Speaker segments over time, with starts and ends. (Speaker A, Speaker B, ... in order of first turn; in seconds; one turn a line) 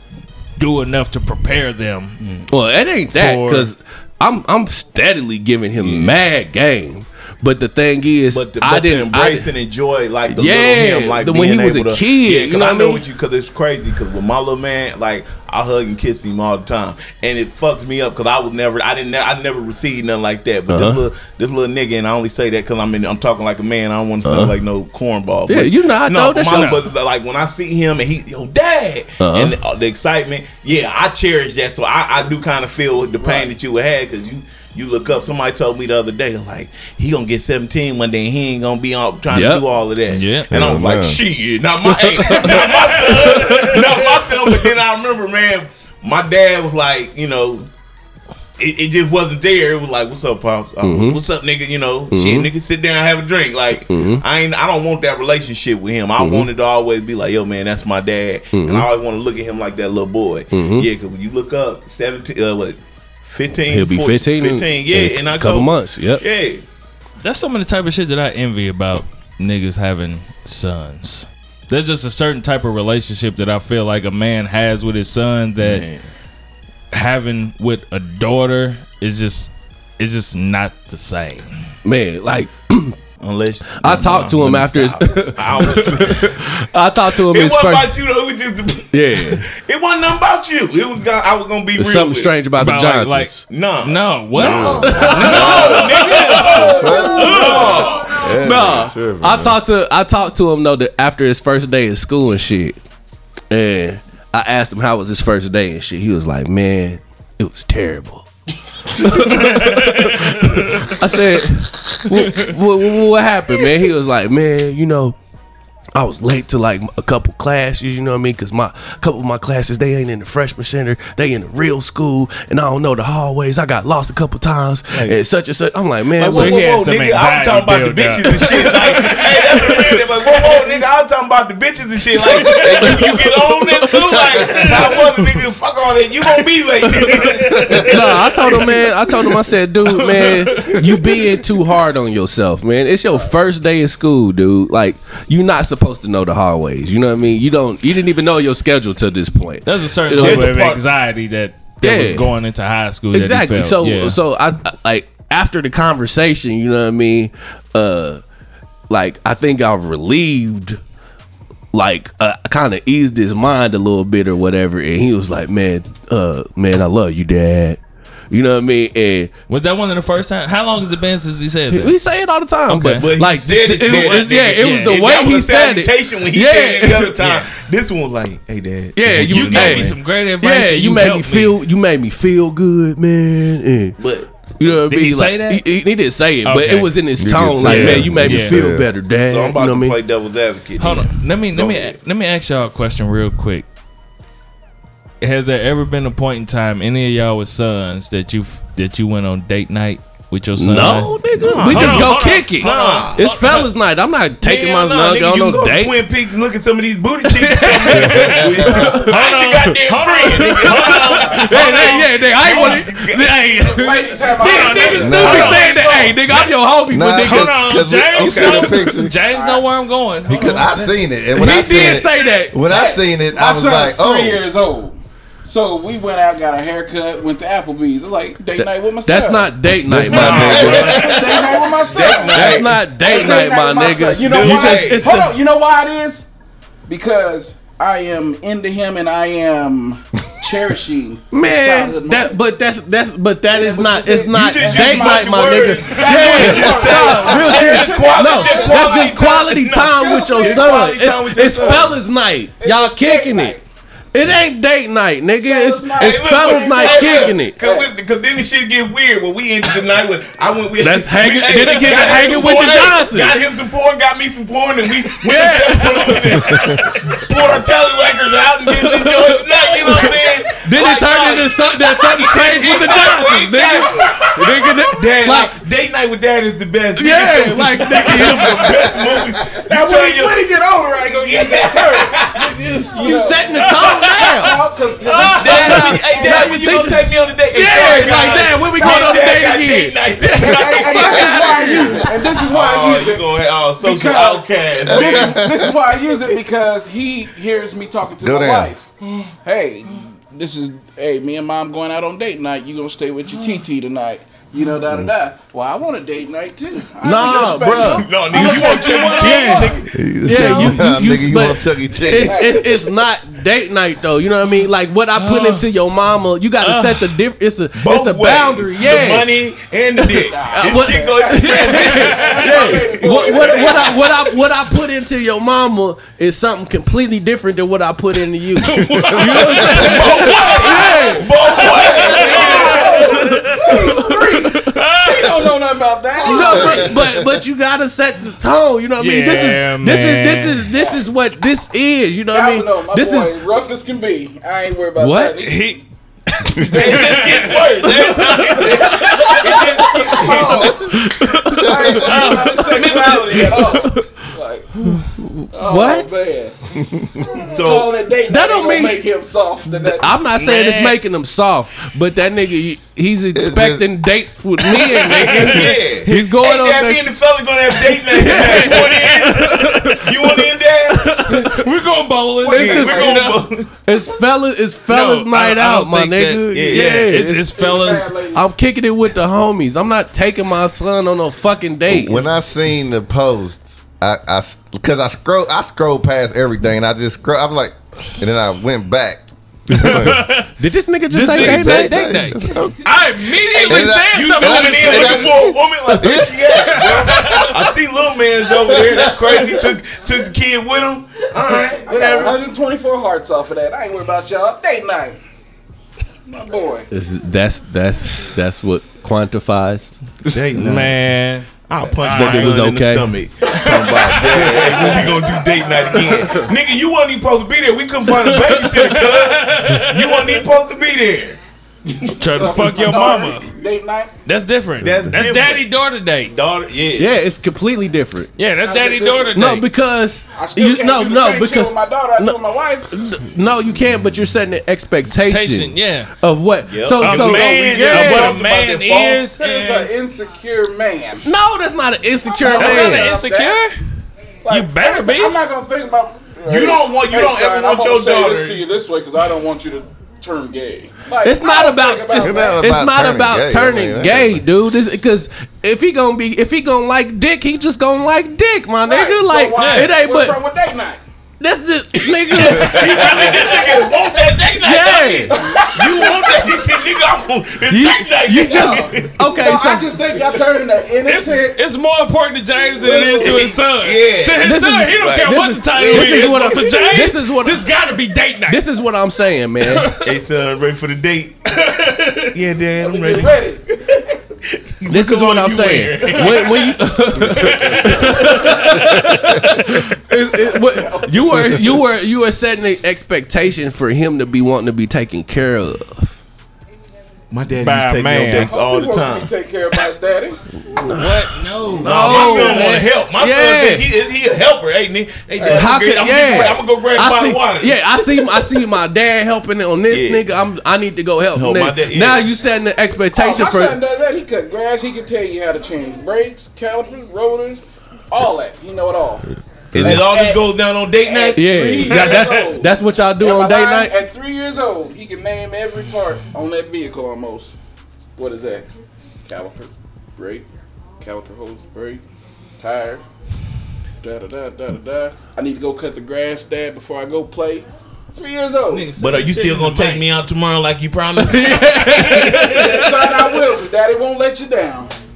Speaker A: 0.6-2.2
Speaker B: 2.2-2.5
Speaker C: 2.5-9.5
Speaker A: 3.1-3.7
Speaker B: 5.8-6.2
Speaker B: 8.3-47.7
Speaker C: 10.3-13.0
Speaker C: 20.7-21.0
Speaker C: 24.2-24.6
Speaker C: 25.5-26.9
Speaker A: 26.4-26.9
Speaker C: 29.2-29.6
Speaker D: 33.2-33.5
Speaker C: 39.3-39.6
Speaker A: 40.1-40.5
Speaker E: 40.5-41.2
Speaker C: 41.9-43.9
Speaker A: 42.3-44.3
Speaker B: 48.6-66.7
Speaker C: 50.8-51.2
Speaker C: 52.1-52.5
Speaker C: 53.9-54.2
Speaker C: 56.2-56.5
Speaker C: 58.5-58.9
Speaker C: 60.5-60.9
Speaker C: 63.7-66.2
Speaker A: 67.2-75.9
Speaker B: 75.6-76.0
Speaker A: 76.9-81.5
Speaker C: 81.8-83.0
Speaker B: 83.2-86.5
Speaker C: 83.7-88.0
Speaker B: 87.2-92.3
Speaker C: 88.9-89.5
Speaker C: 91.8-93.4
Speaker A: 92.6-97.9
Speaker B: 93.5-98.3
Speaker E: 94.4-99.6
Speaker C: 94.5-96.6
Speaker D: 96.3-98.3
Speaker C: 97.6-102.8
Speaker C: 103.5-108.3
Speaker C: 108.9-115.2
Speaker A: 109.2-111.0
Speaker A: 112.1-112.5
Speaker C: 116.0-126.6
Speaker B: 124.9-125.2
Speaker B: 126.2-138.8
Speaker A: 126.3-130.7
Speaker C: 128.7-130.0
Speaker A: 132.3-133.2
Speaker C: 132.4-135.2
Speaker A: 134.4-134.9
Speaker C: 136.8-150.6
Speaker A: 137.2-138.8
Speaker A: 139.8-141.3
Speaker A: 149.7-154.2
Speaker B: 150.2-150.8
Speaker C: 151.8-152.3
Speaker C: 153.1-158.2
Speaker C: 158.9-160.8
Speaker C: 161.7-169.3
Speaker A: 169.5-172.0
Speaker C: 171.7-177.5
Speaker A: 172.7-173.1
Speaker B: 173.0-180.0
Speaker A: 173.9-175.0
Speaker C: 178.9-184.0
Speaker A: 179.1-181.6
Speaker B: 184.0-184.3
Speaker C: 184.6-190.0
Speaker A: 184.9-185.6
Speaker A: 186.4-187.0
Speaker E: 187.2-188.9
Speaker A: 187.6-188.6
Speaker B: 187.7-188.0
Speaker B: 189.1-192.0
Speaker A: 190.8-193.7
Speaker A: 195.2-203.7
Speaker C: 200.6-206.0
Speaker B: 200.8-203.7
Speaker B: 204.4-213.4
Speaker C: 207.2-209.7
Speaker E: 207.9-208.8
Speaker A: 208.1-212.8
Speaker C: 210.3-217.6
Speaker D: 213.8-216.2
Speaker A: 214.2-216.4
Speaker B: 214.6-215.6
Speaker E: 214.9-215.6
Speaker E: 216.9-219.2
Speaker A: 217.2-221.0
Speaker B: 218.1-218.8
Speaker D: 219.2-219.6
Speaker E: 220.3-224.4
Speaker C: 221.3-222.7
Speaker D: 222.6-229.6
Speaker C: 228.6-231.2
Speaker E: 229.8-231.4
Speaker B: 230.0-233.5
Speaker D: 230.2-236.3
Speaker C: 232.3-235.4
Speaker B: 234.2-235.1
Speaker D: 236.9-242.4
Speaker C: 241.3-253.6
Speaker D: 243.5-250.8
Speaker B: 244.3-252.0
Speaker A: 245.9-246.6
Speaker D: 252.6-253.6
Speaker C: 254.1-257.6
Speaker D: 255.4-257.9
Speaker B: 256.0-282.6
Speaker C: 260.8-263.4
Speaker C: 265.1-266.5
Speaker E: 266.4-266.8
Speaker A: 266.6-267.2
Speaker C: 268.7-275.6
Speaker C: 277.0-278.8
Speaker E: 278.5-279.3
Speaker D: 279.5-286.8
Speaker C: 282.7-284.6
Speaker A: 283.5-285.9
Speaker B: 285.3-291.8
Speaker C: 285.4-292.1
Speaker D: 287.8-289.3
Speaker D: 290.3-298.9
Speaker B: 292.4-295.5
Speaker E: 294.9-295.8
Speaker E: 298.2-298.7
Speaker D: 299.4-309.8
Speaker C: 307.0-319.3
Speaker B: 307.8-309.9
Speaker A: 308.3-309.7
Speaker E: 309.9-312.6
Speaker D: 312.1-312.9
Speaker A: 315.2-315.7
Speaker A: 316.6-317.2
Speaker B: 317.8-324.0
Speaker C: 320.1-331.3
Speaker D: 320.2-324.2
Speaker A: 328.6-335.5
Speaker B: 329.7-333.3
Speaker D: 329.8-337.0
Speaker C: 336.2-343.4
Speaker E: 336.7-337.2
Speaker A: 339.0-340.7
Speaker D: 340.7-341.0
Speaker D: 342.3-345.8
Speaker C: 345.0-345.4
Speaker A: 345.4-350.3
Speaker B: 346.6-351.0
Speaker D: 346.7-347.6
Speaker D: 348.6-354.9
Speaker C: 350.9-352.5
Speaker A: 352.0-352.8
Speaker B: 352.0-353.8
Speaker C: 353.1-354.3
Speaker C: 354.8-356.1
Speaker D: 355.5-356.6
Speaker E: 356.8-357.4
Speaker D: 357.2-360.2
Speaker B: 357.5-357.9
Speaker C: 358.3-359.0
Speaker C: 359.7-367.1
Speaker A: 360.4-361.0
Speaker E: 363.3-363.9
Speaker A: 364.9-366.3
Speaker B: 365.0-371.4
Speaker C: 368.0-371.7
Speaker A: 368.3-370.0
Speaker A: 371.3-373.5
Speaker B: 372.5-373.7
Speaker C: 372.5-373.2
Speaker D: 372.6-373.2
Speaker C: 373.8-377.6
Speaker A: 374.9-378.2
Speaker B: 376.5-377.2
Speaker D: 377.6-378.5
Speaker C: 378.3-382.2
Speaker E: 381.9-390.3
Speaker A: 389.7-390.5
Speaker C: 389.8-392.0
Speaker A: 391.1-395.4
Speaker E: 391.3-392.9
Speaker B: 393.5-402.4
Speaker E: 393.6-396.5
Speaker A: 396.5-397.6
Speaker E: 398.6-399.6
Speaker D: 401.9-405.2
Speaker D: 406.3-406.9
Speaker C: 406.9-410.0
Speaker B: 410.2-411.0
Speaker A: 410.6-411.5
Speaker B: 411.7-422.2
Speaker A: 412.0-412.7
Speaker C: 412.1-413.1
Speaker A: 413.5-415.1
Speaker A: 418.5-420.4
Speaker A: 422.2-423.5
Speaker D: 422.3-424.1
Speaker A: 424.3-426.3
Speaker B: 424.8-425.7
Speaker B: 426.3-427.2
Speaker C: 427.0-428.3
Speaker A: 428.4-429.7
Speaker D: 428.6-429.5
Speaker C: 429.3-432.4
Speaker D: 430.3-432.9
Speaker C: 432.9-438.4
Speaker A: 435.3-436.1
Speaker B: 436.7-439.3
Speaker A: 437.0-439.9
Speaker D: 439.1-441.3
Speaker C: 441.2-443.1
Speaker D: 442.3-443.6
Speaker A: 442.4-443.8
Speaker D: 444.4-452.6
Speaker A: 444.5-445.4
Speaker B: 446.5-448.6
Speaker C: 451.2-460.4
Speaker E: 452.2-454.4
Speaker D: 458.8-461.0
Speaker A: 459.6-459.9
Speaker C: 461.4-463.3
Speaker B: 462.1-469.2
Speaker E: 462.6-463.2
Speaker C: 464.6-465.4
Speaker D: 465.3-466.5
Speaker C: 467.7-470.0
Speaker D: 468.3-471.6
Speaker A: 471.1-478.6
Speaker D: 472.8-473.5
Speaker B: 473.2-477.0
Speaker C: 474.4-477.7
Speaker C: 478.5-480.0
Speaker A: 479.6-480.2
Speaker B: 480.0-481.4
Speaker A: 481.5-482.4
Speaker B: 482.3-483.4
Speaker D: 482.8-484.0
Speaker B: 484.8-486.7
Speaker C: 484.9-496.2
Speaker A: 486.1-489.8
Speaker D: 490.3-491.6
Speaker B: 497.3-499.3
Speaker A: 497.6-498.5
Speaker D: 498.3-500.4
Speaker C: 500.7-501.2
Speaker A: 500.8-502.9
Speaker C: 501.8-503.9
Speaker B: 501.8-507.9
Speaker D: 505.4-506.5
Speaker C: 505.5-513.8
Speaker B: 509.9-510.3
Speaker B: 511.3-512.3
Speaker D: 513.1-527.6
Speaker B: 519.7-521.9
Speaker E: 519.8-520.0
Speaker C: 521.4-524.0
Speaker A: 521.9-522.4
Speaker D: 528.2-528.7
Speaker D: 529.2-530.5
Speaker D: 531.0-532.0
Speaker D: 532.6-533.0
Speaker D: 534.0-538.9
Speaker A: 538.7-540.1
Speaker B: 539.0-542.2
Speaker C: 541.2-543.4
Speaker A: 541.7-542.9
Speaker D: 542.4-544.9